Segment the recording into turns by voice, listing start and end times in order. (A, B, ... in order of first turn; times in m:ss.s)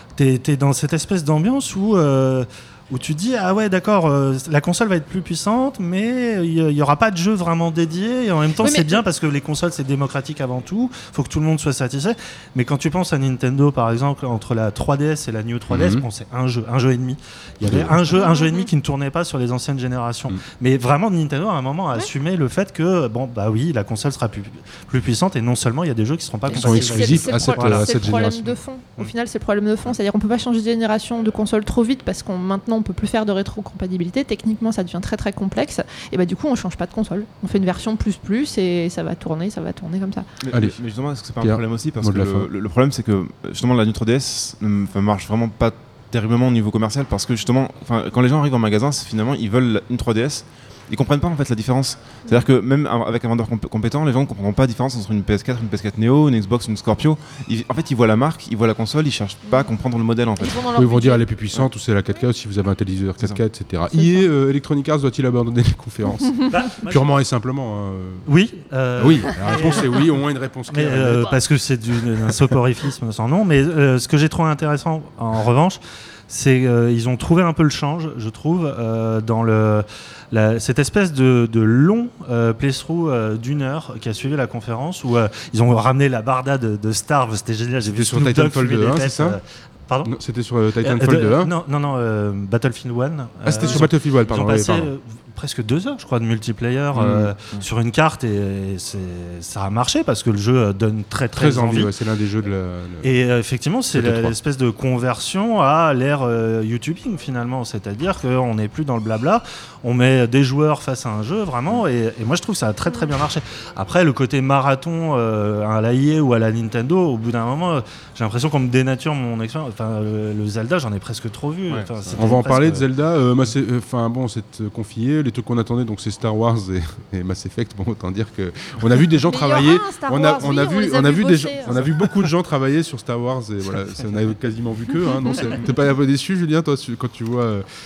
0:00.2-0:28.1 A
0:08.6-0:09.0 B
0:15.7-0:16.1 C
0:17.6-0:18.0 C
0:18.1-0:18.7 B
0:26.5-0:40.3 B
0:26.5-0:28.6 C
0:40.4-1:00.6 D
0:40.5-0:42.5 C
0:59.4-0:59.8 B
1:00.4-1:01.3 B
1:00.7-1:08.3 C
1:03.9-1:04.3 B
1:06.5-1:07.1 A
1:08.2-1:10.1 A
1:09.0-1:11.4 C
1:10.7-1:30.1 A
1:27.9-1:29.4 C
1:30.0-1:31.5 C
1:30.8-1:41.9 A
1:33.4-1:34.9 C
1:36.9-1:37.3 C
1:41.3-1:43.1 C
1:43.0-2:02.9 A
1:43.9-1:44.3 C
1:52.8-1:53.1 B
2:02.1-2:17.6 C
2:09.2-2:12.0 B